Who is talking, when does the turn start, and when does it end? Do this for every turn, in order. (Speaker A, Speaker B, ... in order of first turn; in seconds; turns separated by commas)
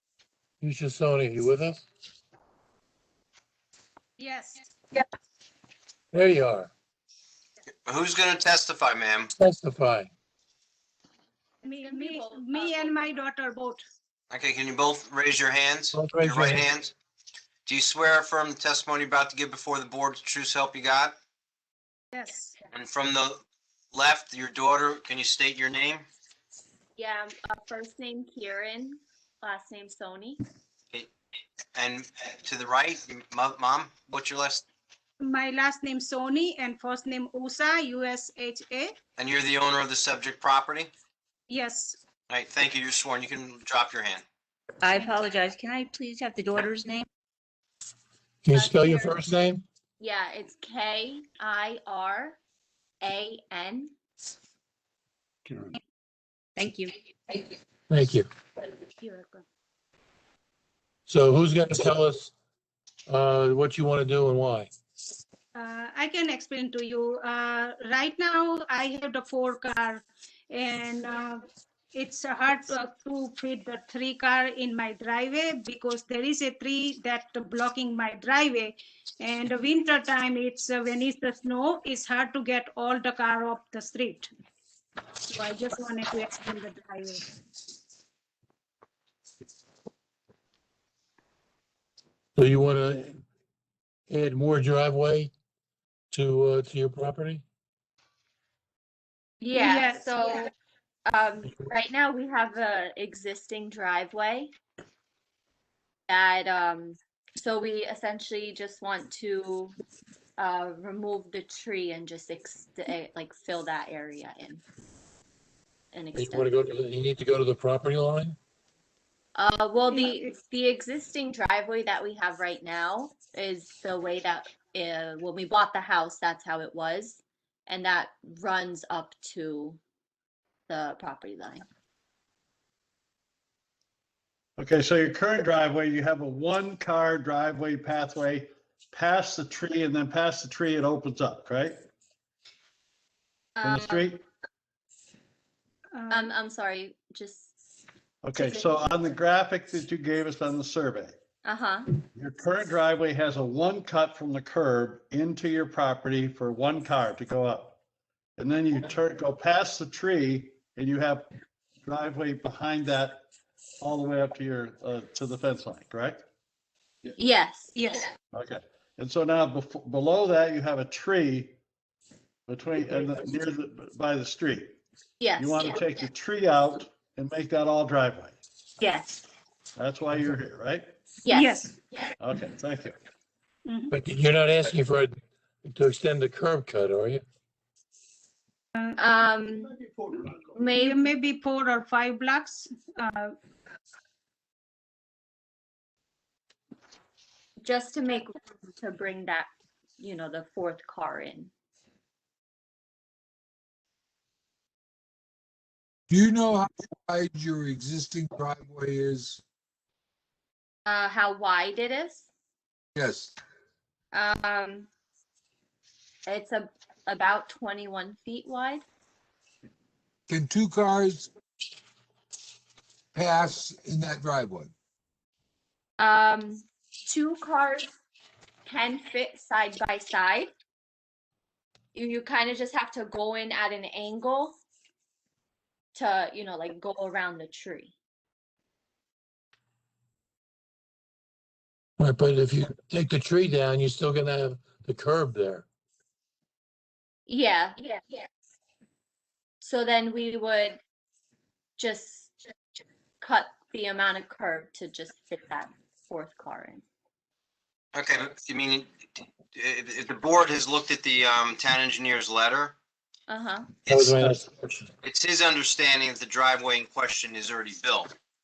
Speaker A: 0.6-1.8, Speaker B: 4.2-4.7, Speaker A: 6.1-6.7, Speaker C: 7.9-9.3, Speaker A: 9.4-10.1, Speaker B: 11.6-13.8, Speaker D: 11.7-13.1, Speaker C: 14.3-16.9, Speaker A: 15.9-16.6, Speaker C: 17.7-21.1, Speaker B: 22.1-22.6, Speaker C: 22.7-23.4, Speaker C: 23.9-26.1, Speaker D: 27.0-30.4, Speaker C: 31.8-34.6, Speaker B: 35.2-39.0, Speaker C: 39.2-40.9, Speaker B: 41.5-42.0, Speaker C: 42.3-44.2, Speaker E: 44.8-47.1, Speaker B: 44.9-45.2, Speaker A: 48.4-49.6, Speaker D: 48.5-49.2, Speaker D: 50.0-52.4, Speaker D: 53.0-53.9, Speaker E: 56.6-57.4, Speaker A: 57.9-58.3, Speaker B: 59.0-59.4, Speaker A: 61.1-62.3, Speaker A: 63.1-64.7, Speaker B: 65.5-71.4, Speaker B: 71.9-84.3, Speaker B: 85.3-87.2, Speaker A: 92.4-93.2, Speaker A: 94.1-95.3, Speaker A: 96.1-97.4, Speaker D: 99.4-100.5, Speaker B: 99.5-100.4, Speaker D: 101.1-104.5, Speaker D: 106.1-109.8, Speaker D: 110.4-114.6, Speaker D: 115.9-116.5, Speaker A: 116.1-118.4, Speaker D: 119.3-129.8, Speaker D: 130.7-131.6, Speaker F: 134.6-141.8, Speaker D: 143.6-144.1, Speaker F: 143.6-144.2, Speaker B: 145.9-146.3, Speaker D: 146.1-147.5, Speaker F: 148.2-151.1, Speaker D: 148.4-148.9, Speaker D: 151.4-151.9, Speaker F: 152.2-157.8, Speaker F: 158.4-161.3, Speaker F: 161.8-163.3, Speaker F: 163.8-166.2, Speaker D: 167.2-167.8, Speaker B: 167.8-168.1, Speaker F: 168.3-171.6, Speaker F: 172.5-174.8, Speaker D: 175.2-175.9, Speaker F: 175.4-178.4, Speaker D: 178.8-179.2, Speaker F: 179.8-180.9, Speaker D: 181.2-181.7, Speaker B: 181.3-181.8, Speaker F: 182.2-183.0, Speaker B: 183.7-183.9, Speaker A: 183.9-187.2, Speaker D: 189.0-189.8, Speaker D: 190.4-191.1, Speaker B: 190.7-193.3, Speaker D: 197.6-201.5, Speaker G: 206.1-209.4, Speaker D: 210.9-212.3, Speaker G: 212.9-213.3, Speaker D: 214.1-214.9, Speaker D: 216.3-218.8, Speaker G: 220.3-221.3, Speaker G: 223.1-224.7, Speaker D: 226.0-227.9, Speaker D: 228.7-230.5, Speaker D: 231.9-234.6, Speaker D: 235.9-237.9, Speaker A: 242.0-245.7, Speaker D: 247.3-247.9, Speaker D: 249.6-250.8, Speaker D: 251.8-252.3, Speaker D: 253.2-256.9, Speaker C: 257.9-262.8, Speaker D: 263.3-263.7, Speaker C: 263.9-264.4, Speaker A: 263.9-264.9, Speaker C: 265.0-268.1